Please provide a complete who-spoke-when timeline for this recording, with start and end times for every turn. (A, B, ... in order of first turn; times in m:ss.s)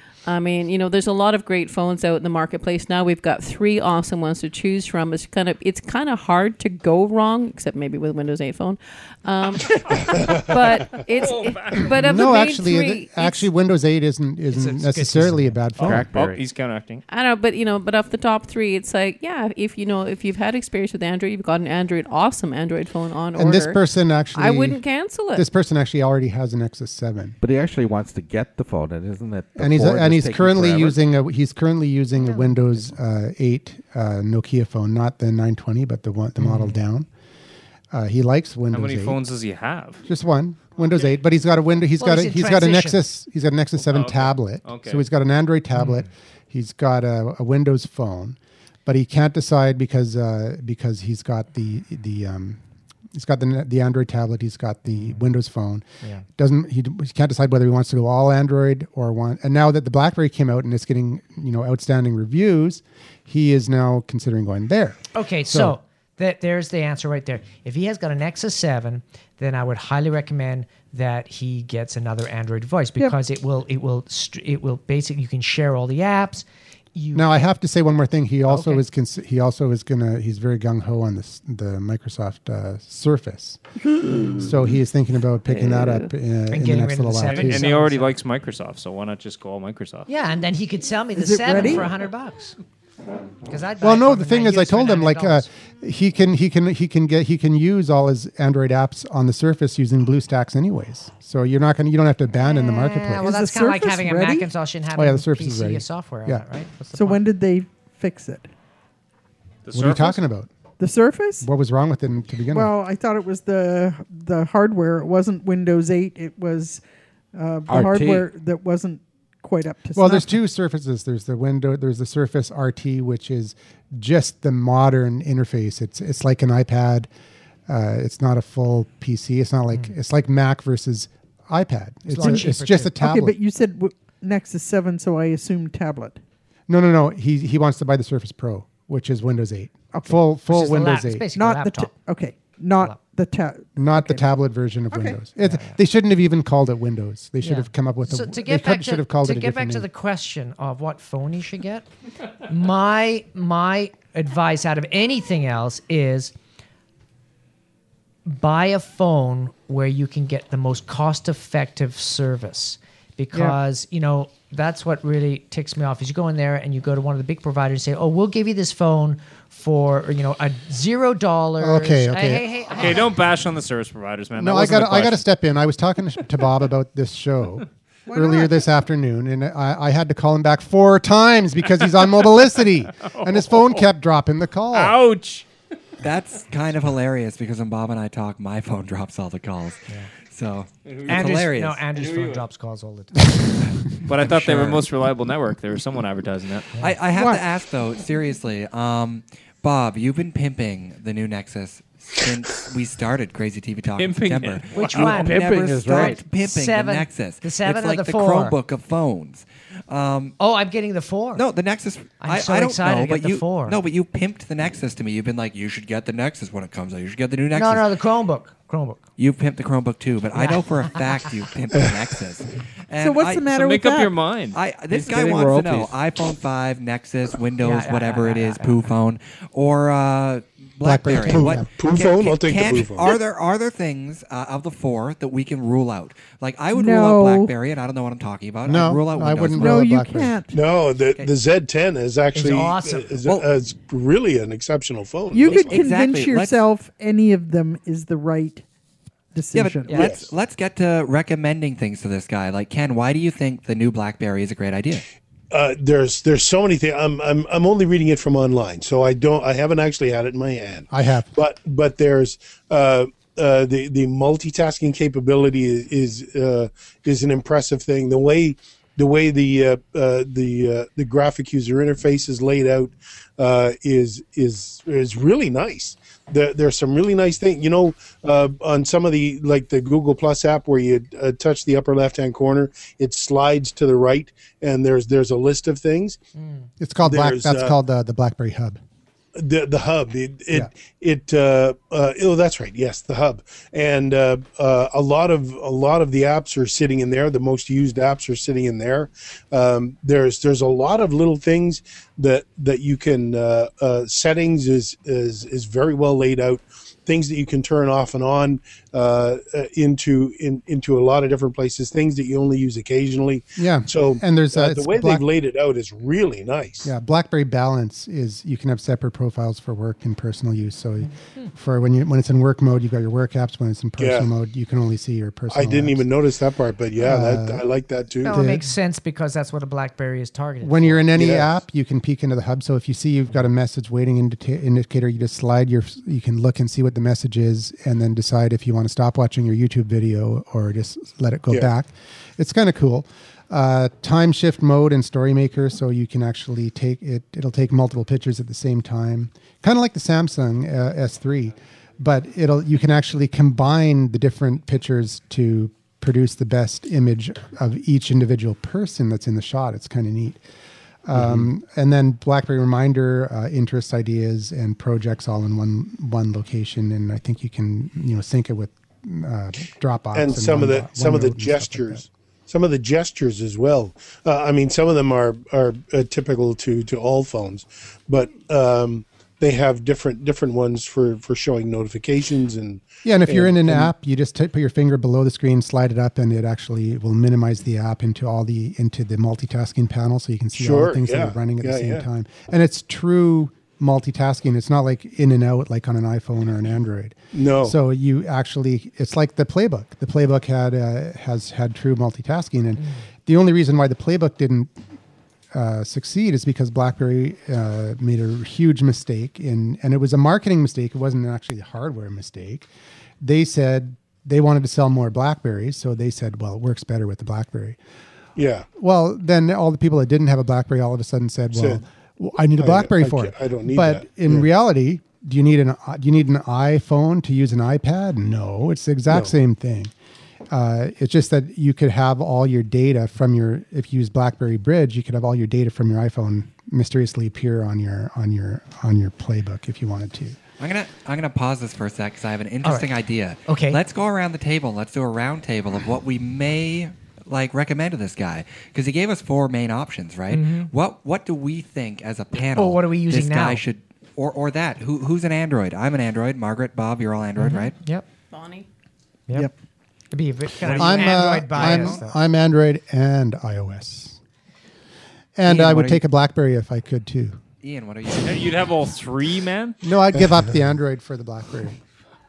0:00.3-0:13.4 A
0:11.1-0:12.0 B
0:11.9-0:16.1 C
0:14.5-0:15.6 D
0:15.8-0:17.0 B
0:15.8-0:16.4 E
0:17.1-0:23.8 A
0:23.4-0:24.8 C
0:24.4-0:25.5 A
0:25.3-0:27.4 C
0:27.4-0:31.0 E
0:29.6-0:37.1 C
0:32.2-0:32.5 D
0:36.4-0:36.8 D
0:37.9-0:39.2 C
0:38.7-0:40.0 B
0:40.0-0:52.6 C
0:42.0-0:43.0 D
0:43.8-0:45.1 B
0:45.8-0:46.1 D
0:53.1-0:55.8 C
0:56.4-1:05.8 C
1:05.1-1:17.4 D
1:17.1-1:23.6 C
1:18.5-1:18.8 D
1:24.4-1:27.7 C
1:25.5-1:26.1 A
1:26.5-1:28.1 D
1:27.2-1:30.1 B
1:30.1-1:32.6 D
1:31.1-1:31.9 F
1:33.5-1:35.5 D
1:33.8-1:43.3 C
1:42.4-1:47.2 D
1:43.1-1:44.5 F
1:45.0-1:46.4 C
1:46.9-1:48.5 F
1:49.6-1:50.2 B
1:49.7-1:50.5 C
1:50.8-1:51.5 F
1:51.4-1:52.7 C
1:52.5-1:56.8 F
1:57.3-2:00.4 F
1:57.7-1:58.3 E
2:00.0-2:07.1 C
2:07.7-2:13.4 C
2:12.1-2:12.9 D
2:12.2-2:16.2 F
2:16.7-2:21.3 C
2:20.5-2:21.9 D
2:21.3-2:24.2 F
2:23.8-2:29.9 C
2:24.9-2:25.2 F
2:25.4-2:25.8 D
2:27.4-2:31.9 D
2:32.4-2:36.3 D
2:38.3-2:53.1 D
2:51.6-2:53.0 C
2:52.8-2:55.2 B
2:54.4-3:05.0 C
2:58.1-2:58.6 F
3:03.0-3:03.9 B
3:04.7-3:05.5 B
3:06.0-3:11.8 G
3:10.8-3:12.4 B
3:11.1-3:13.4 D
3:14.1-3:16.7 B
3:14.3-3:14.8 G
3:16.8-3:30.4 G
3:17.1-3:17.4 F
3:24.0-3:25.5 B
3:24.7-3:25.4 D
3:24.9-3:26.2 E
3:25.9-3:28.6 D
3:30.4-3:31.4 D
3:31.4-3:37.9 G
3:32.2-3:33.8 D
3:37.5-3:39.0 D
3:39.2-3:43.5 G
3:40.4-3:41.1 D
3:43.0-3:44.2 F
3:43.5-3:44.6 B
3:44.5-3:59.9 G
3:44.9-3:46.0 E
3:47.6-3:48.8 D
3:50.8-3:51.7 C
3:51.3-3:53.2 H
3:56.7-3:57.5 F
3:58.7-4:00.4 C
3:59.6-4:00.6 F
4:00.5-4:05.8 H
4:02.3-4:03.2 D
4:05.3-4:08.6 F
4:05.5-4:06.6 G
4:09.3-4:10.1 F
4:09.5-4:15.0 G
4:10.0-4:10.3 H
4:15.5-4:46.2 H
4:20.9-4:21.3 C
4:46.4-4:46.7 D
4:46.8-4:48.8 C
4:47.0-4:47.8 H
4:49.4-5:16.9 H
5:13.6-5:15.2 C
5:16.8-5:26.1 C
5:24.0-5:24.3 H
5:25.5-5:28.4 H
5:27.0-5:27.6 C
5:28.2-5:31.1 D
5:28.3-5:28.7 C
5:30.6-6:00.4 C
5:31.1-5:31.6 H
6:01.1-6:12.0 C
6:10.1-6:23.9 H
6:23.0-6:44.7 C
6:30.5-6:32.1 H
6:37.3-6:37.8 H
6:45.5-6:52.7 C
6:53.2-6:57.8 C
6:58.4-6:58.7 H
6:58.8-7:09.9 C
7:01.5-7:01.8 H
7:02.6-7:04.5 H
7:09.1-7:09.3 H
7:10.5-7:20.4 C
7:20.6-7:37.8 G
7:23.5-7:23.8 D
7:30.3-7:30.7 D
7:32.5-7:33.6 D
7:37.4-7:38.0 D
7:38.3-7:38.6 A
7:40.1-7:42.1 D
7:40.6-7:44.2 C
7:40.7-7:42.0 G
7:45.4-7:47.4 C
7:45.5-7:46.0 G
7:47.6-7:48.6 G
7:48.1-7:49.8 B
7:49.8-7:51.8 C